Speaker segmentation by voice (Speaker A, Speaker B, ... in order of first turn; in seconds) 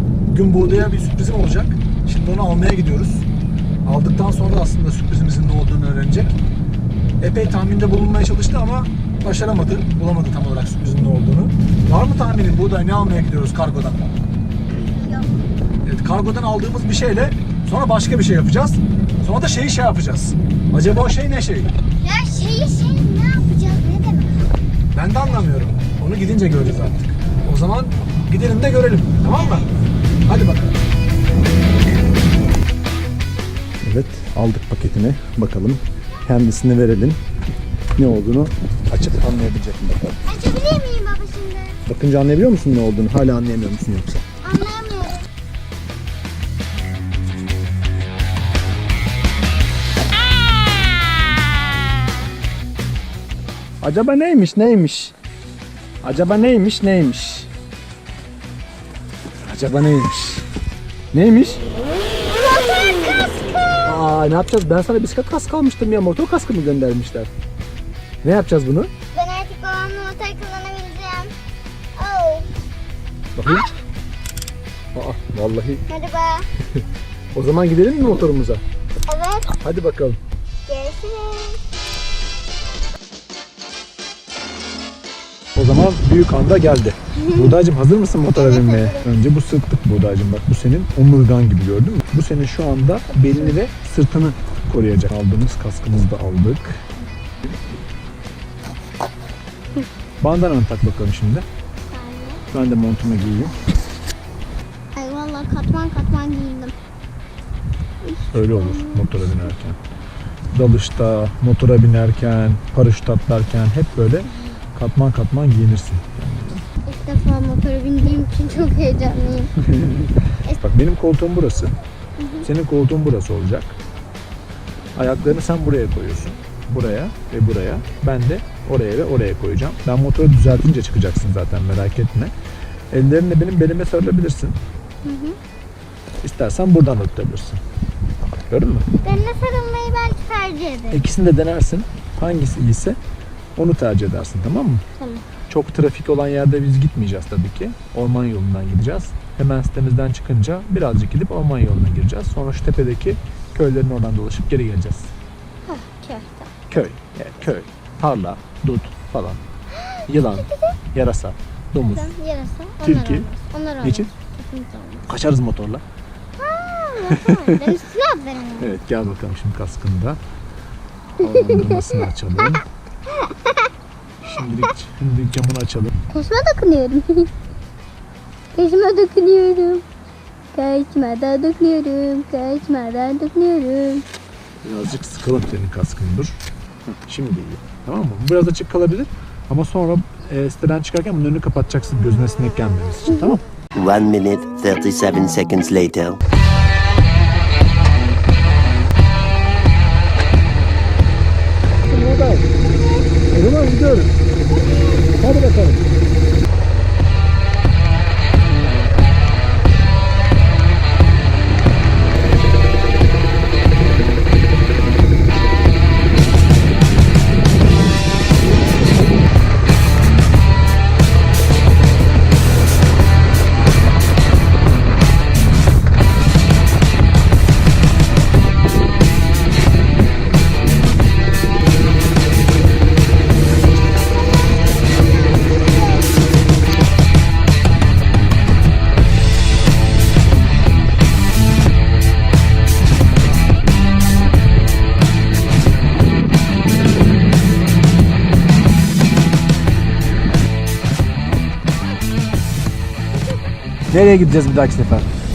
Speaker A: 0.3-3.2, 3.9-6.3, 7.2-14.1, 15.8-21.7, 24.9-29.7, 30.3-30.8, 33.8-37.2, 38.0-40.1, 41.9-44.2, 53.8-55.1, 56.0-57.5, 59.5-60.4, 61.1-61.6, 63.8-67.3, 68.2-68.9, 73.4-73.7, 74.9-75.8, 77.3-78.6, 79.6-80.2, 85.6-96.8, 100.2-101.5, 102.5-103.6, 108.3-109.8, 110.5-116.6, 119.7-121.7, 122.4-123.8, 125.0-132.3, 132.9-134.6, 136.2-137.6, 138.5-138.8, 140.9-143.0, 143.6-144.8, 145.5-155.1, 156.7-159.4, 160.1-162.1, 162.8-163.3, 163.8-164.1, 165.1-165.8, 167.1-167.7, 168.6-170.2, 171.2-172.7, 174.2-175.9, 184.6-186.3, 187.1-193.4, 201.9-202.5, 203.3-204.1, 205.1-205.8, 253.9-255.1
Speaker B: 14.9-15.4, 22.0-24.5, 40.3-41.8, 44.4-45.2, 62.3-64.0, 69.1-71.3, 72.0-72.5, 75.9-76.5, 79.1-79.6, 80.7-81.6, 87.2-87.6, 88.3-89.1, 101.9-102.4, 105.0-106.7, 108.0-109.4, 116.9-119.5, 122.2-122.5, 135.0-135.4, 139.0-141.1, 145.0-145.2, 155.7-156.5, 159.8-160.8, 161.9-165.1, 166.4-168.8, 171.3-172.0, 173.2-173.5, 176.1-177.3, 178.6-179.8, 180.5-184.1, 202.6-203.1, 204.5-205.1, 234.3-236.2
Speaker C: 193.8-196.2